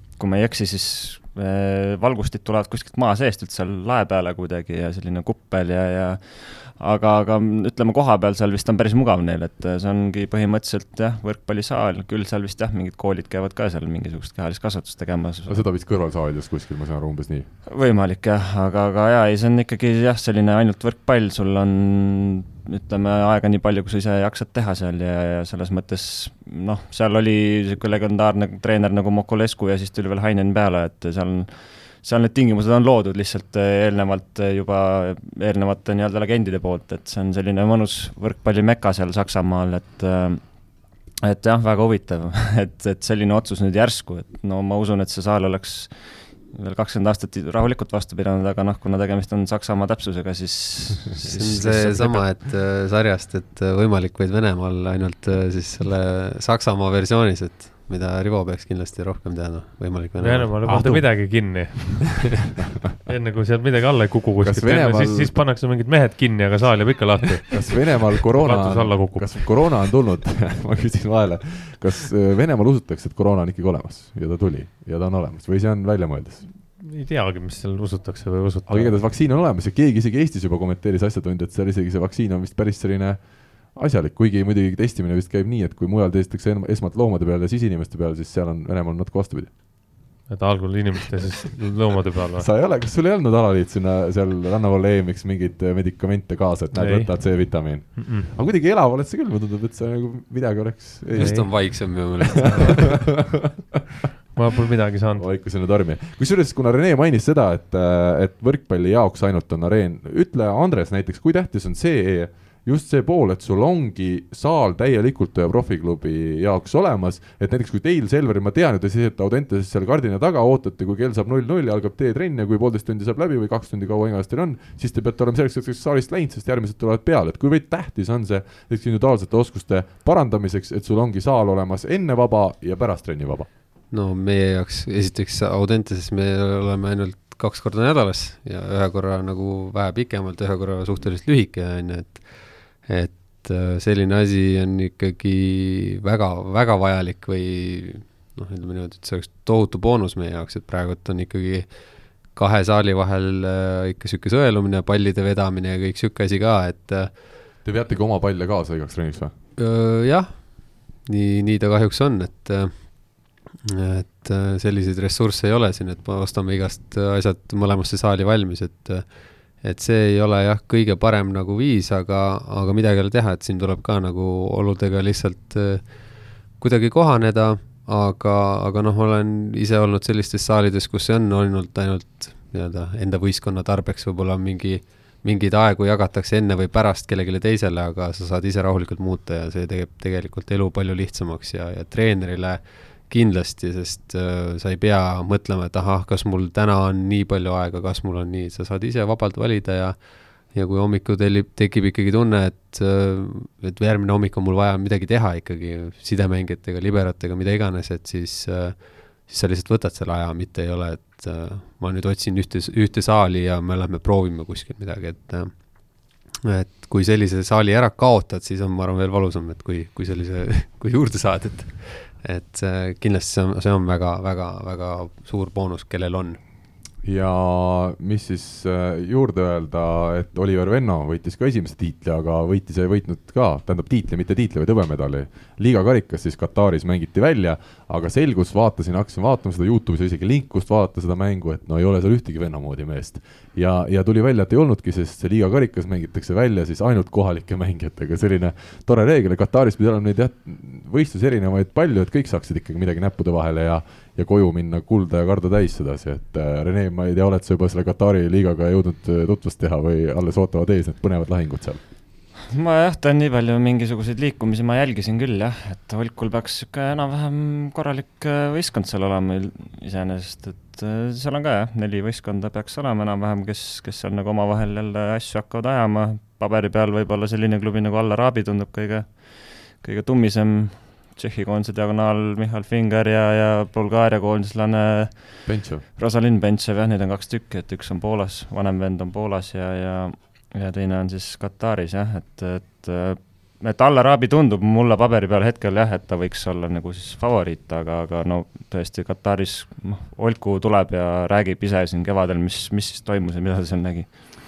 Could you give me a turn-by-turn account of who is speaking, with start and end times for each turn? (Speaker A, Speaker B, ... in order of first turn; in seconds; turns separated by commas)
Speaker A: 0.2-15.6, Speaker B: 15.5-17.5, Speaker A: 17.7-40.4, Speaker A: 41.2-52.3, Speaker C: 51.3-60.6, Speaker D: 60.2-62.4, Speaker B: 60.6-61.1, Speaker D: 63.0-69.7, Speaker B: 64.4-65.4, Speaker B: 67.5-76.5, Speaker D: 76.8-79.0, Speaker B: 78.7-83.2, Speaker B: 83.7-89.5, Speaker D: 90.3-92.5, Speaker B: 92.3-101.9, Speaker D: 96.7-98.3, Speaker C: 101.1-103.0, Speaker D: 101.2-101.9, Speaker B: 102.5-103.8, Speaker D: 104.3-105.3, Speaker B: 105.2-133.5, Speaker C: 133.9-142.3, Speaker C: 142.8-151.7, Speaker C: 152.3-157.1, Speaker B: 157.6-159.3, Speaker C: 159.6-160.5, Speaker C: 161.1-169.0, Speaker C: 169.6-175.8, Speaker C: 176.6-200.0, Speaker C: 200.5-215.5, Speaker C: 216.4-226.4, Speaker B: 227.0-261.8, Speaker A: 262.5-285.4, Speaker B: 285.4-285.8, Speaker A: 286.0-304.1